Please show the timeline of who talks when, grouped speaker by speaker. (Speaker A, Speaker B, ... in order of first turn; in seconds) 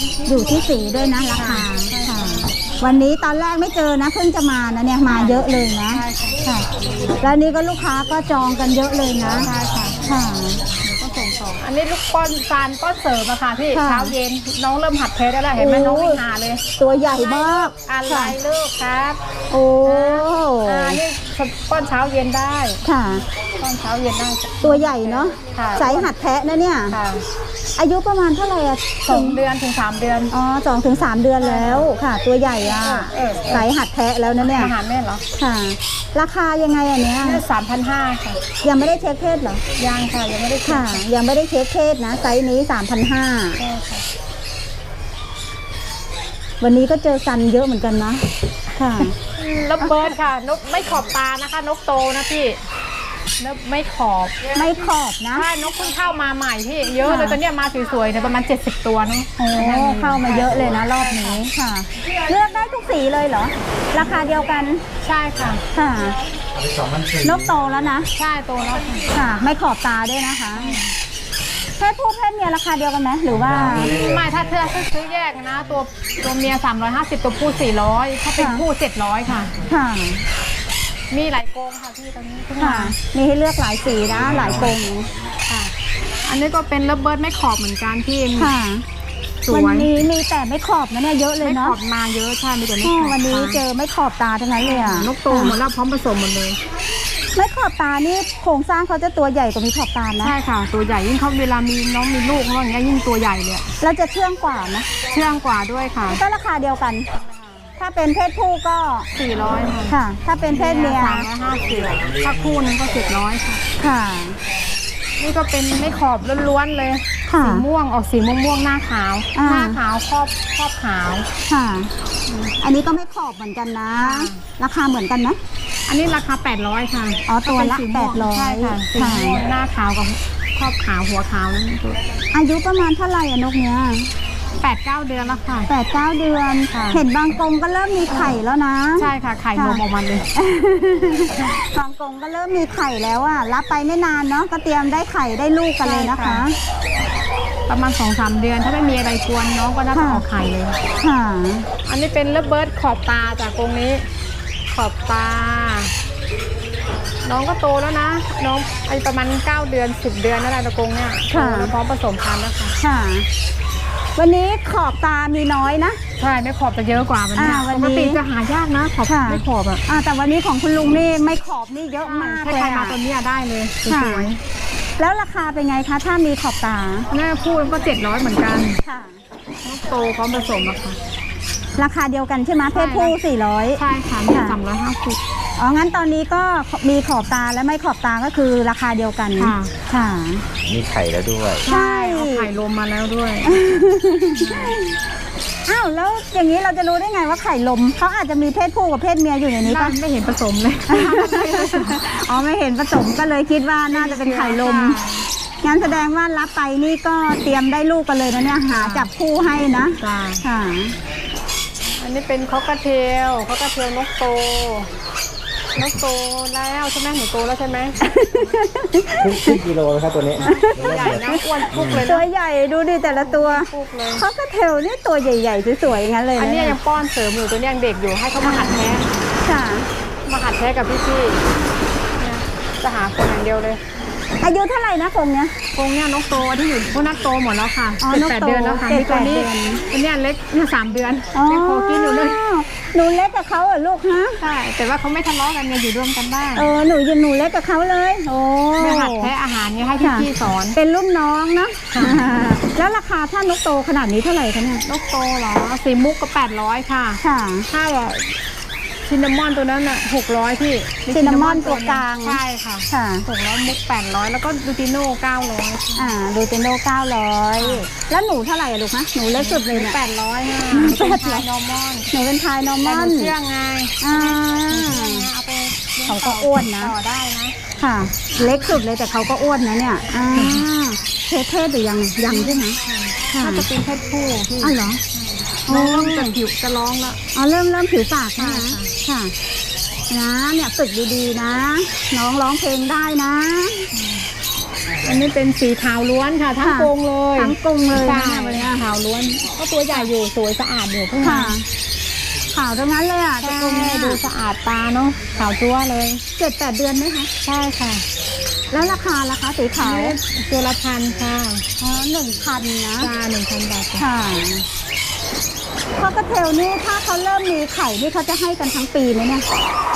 Speaker A: 0.3-6.7, 7.2-9.5, 10.1-10.6, 13.7-14.2, 15.6-16.2, 16.8-18.4, 19.5-21.0, 22.9-23.2, 24.6-27.0, 27.8-29.4, 30.3-34.7, 35.4-37.4, 38.6-39.6, 40.6-43.6, 46.6-48.2, 48.8-49.1, 49.8-50.1, 54.5-55.5, 57.0-57.4, 59.4-64.8, 65.8-66.2, 67.2-68.1, 69.1-70.8, 71.8-74.0, 78.4-78.7, 79.7-80.2, 82.6-85.1, 88.4-88.8, 89.5-91.8, 92.8-95.6, 97.4-100.3, 103.8-104.9, 106.1-107.1, 107.8-109.1, 109.9-111.3, 113.8-114.4, 117.3-117.7, 119.3-119.8, 121.5-121.9, 122.6-125.4, 127.3-129.4, 132.3-134.1, 135.7-139.8, 140.3-146.6, 149.9-150.2, 151.0-151.7, 161.3-161.7, 162.8-163.3, 164.2-166.0, 167.3-168.2, 169.1-173.0, 173.9-174.3, 175.0-177.1, 178.8-179.2, 181.8-184.6, 185.6-190.4, 191.7-192.5, 193.4-194.9, 195.7-200.0, 200.9-205.0, 205.6-210.9, 218.0-219.6, 220.4-226.8, 228.4-228.9, 229.4-229.9, 234.4-235.6, 238.0-239.8, 241.3-244.4, 246.6-249.3, 250.0-254.8, 257.2-257.7, 261.1-262.4, 262.9-263.3, 266.0-270.0, 270.7-271.5, 272.1-273.3, 274.0-275.3, 276.1-276.9, 277.8-282.8, 283.3-283.7, 284.6-285.0, 285.7-286.4, 287.4-289.3, 290.1-293.9, 296.6-298.8, 301.2-301.7, 302.5-304.2, 306.4-307.3, 308.7-310.2, 311.8-313.1, 314.0-314.7, 316.0-319.4
Speaker B: 1.4-2.6, 5.1-6.4, 9.4-10.0, 10.8-16.6, 17.1-19.2, 19.8-22.8, 23.6-26.1, 26.9-27.2, 29.1-30.3, 31.4-31.8, 32.6-33.7, 34.4-35.2, 37.2-38.4, 39.8-41.0, 43.6-44.0, 49.4-52.6, 53.4-61.5, 65.0-65.6, 68.2-69.1, 70.5-70.9, 73.7-79.5, 81.1-83.0, 86.2-88.5, 89.5-89.9, 91.4-93.6, 94.6-96.6, 100.2-103.7, 105.1-106.2, 107.3-107.5, 109.1-110.0, 110.5-113.6, 115.2-121.3, 124.0-124.4, 125.9-132.0, 134.6-135.7, 136.7-137.0, 139.0-140.3, 145.8-146.4, 147.7-150.8, 151.9-154.1, 154.7-155.9, 157.2-162.7, 166.2-169.8, 172.0-174.4, 177.1-178.8, 179.7-181.0, 182.7-183.1, 183.8-185.2, 189.4-189.7, 191.7-193.6, 194.4-194.8, 199.6-202.0, 203.9-205.3, 208.7-209.1, 210.0-210.4, 212.0-214.9, 215.8-218.0, 220.4-222.3, 223.0-224.2, 226.4-229.2, 230.3-231.5, 232.2-233.8, 235.7-242.4, 244.4-246.7, 248.8-250.8, 251.9-252.2, 254.8-258.4, 259.1-266.1, 267.6-267.9, 269.4-272.1, 272.8-277.6, 278.4-278.8, 280.3-280.6, 282.2-287.2, 288.4-288.9, 293.9-294.3, 295.0-301.6, 303.4-306.2, 307.4-308.1, 309.8-311.6, 313.0-314.1
Speaker C: 190.7-191.7, 219.2-221.2, 221.8-222.0